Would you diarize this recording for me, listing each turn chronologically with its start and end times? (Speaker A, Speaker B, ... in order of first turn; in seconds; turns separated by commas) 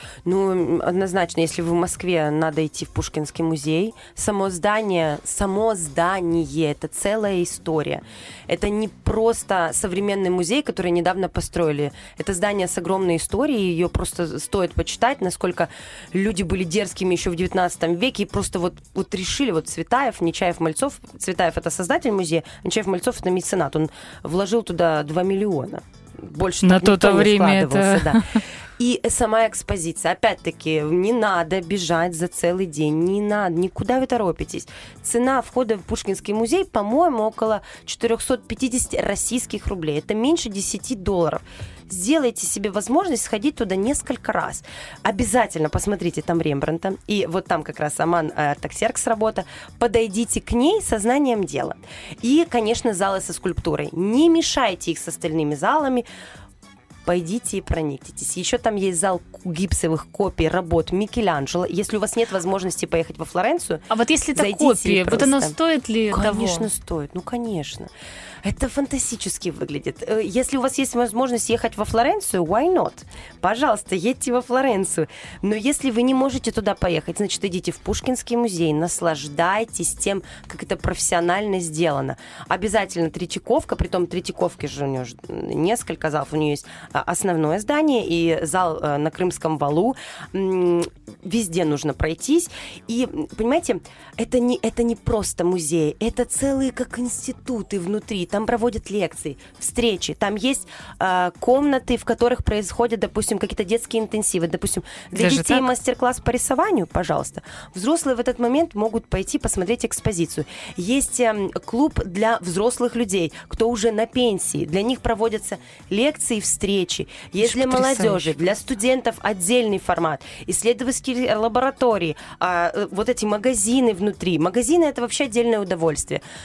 Speaker A: 0.2-56.0, Speaker B: 26.6-28.4, Speaker A: 57.0-65.5, Speaker B: 63.9-66.7, Speaker A: 66.1-67.9, Speaker A: 68.4-126.2, Speaker B: 105.1-105.7, Speaker B: 117.4-118.3